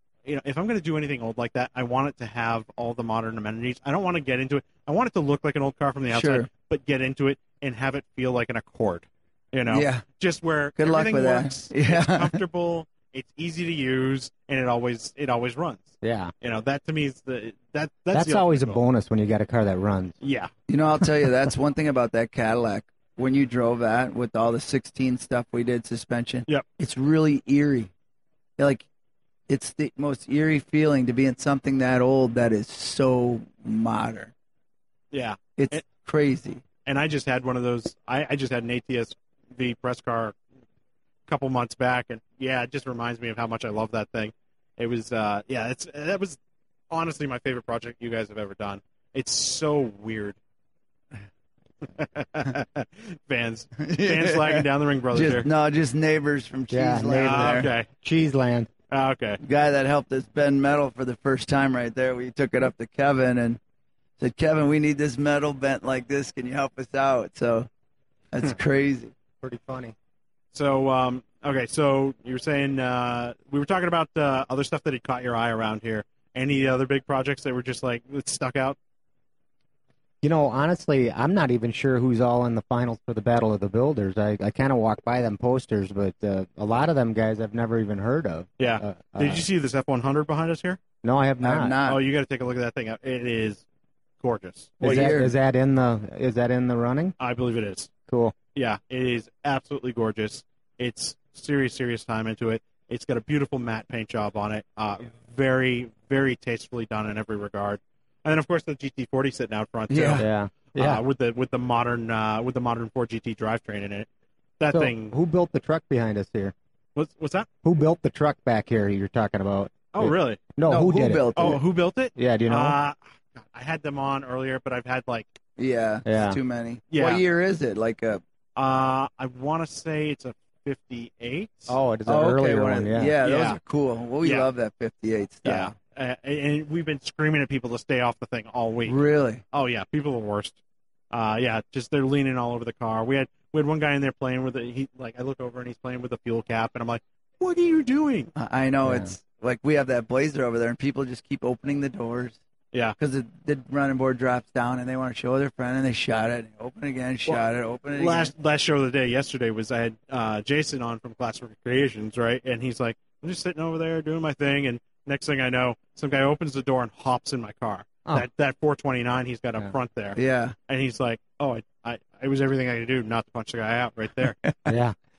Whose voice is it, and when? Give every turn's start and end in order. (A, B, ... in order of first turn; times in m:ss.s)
0:00.2-0:18.8 A
0:06.1-0:06.5 B
0:09.7-0:10.0 B
0:10.8-0:12.4 B
0:16.0-0:16.3 C
0:18.1-0:20.2 C
0:20.2-0:20.5 A
0:20.7-0:27.9 B
0:28.6-0:28.8 B
0:29.5-0:34.3 B
0:35.1-0:35.8 A
0:35.6-0:36.6 B
0:36.8-0:40.4 A
0:41.3-0:46.4 A
0:46.9-0:50.4 A
0:51.8-0:55.5 A
0:53.8-0:57.7 B
0:56.7-0:58.7 C
0:57.1-0:57.9 A
0:58.9-0:59.4 A
0:59.4-1:03.6 B
1:04.2-1:07.7 B
1:08.3-1:09.1 B
1:09.4-1:09.9 C
1:10.5-1:18.8 A
1:20.2-1:29.4 C
1:28.6-1:30.8 A
1:31.0-1:31.8 C
1:31.4-1:32.0 B
1:31.8-1:33.6 A
1:34.2-1:34.8 A
1:34.8-1:35.3 B
1:34.8-1:37.1 C
1:37.2-1:37.9 A
1:38.1-1:38.4 C
1:38.5-1:54.1 A
1:49.9-1:50.2 B
1:50.2-1:51.0 C
1:54.6-1:55.1 A
1:54.7-1:56.5 C
1:57.0-1:57.5 A
1:57.6-2:01.5 C
1:59.9-2:00.4 A
2:00.6-2:01.6 B
2:01.4-2:05.3 A
2:02.1-2:02.8 C
2:05.6-2:08.2 B
2:06.0-2:06.4 C
2:06.9-2:07.2 A
2:08.6-2:11.7 A
2:11.7-2:13.2 C
2:12.1-2:15.7 B
2:13.2-2:13.6 A
2:14.2-2:14.5 A
2:15.4-2:19.0 A
2:18.8-2:19.4 B
2:19.5-2:20.6 A
2:21.1-2:28.3 A
2:28.4-2:32.4 B
2:28.8-2:29.1 C
2:33.0-2:38.3 B
2:37.9-2:54.4 A
2:50.2-2:50.5 B
2:54.4-2:54.8 B
2:54.7-2:55.0 C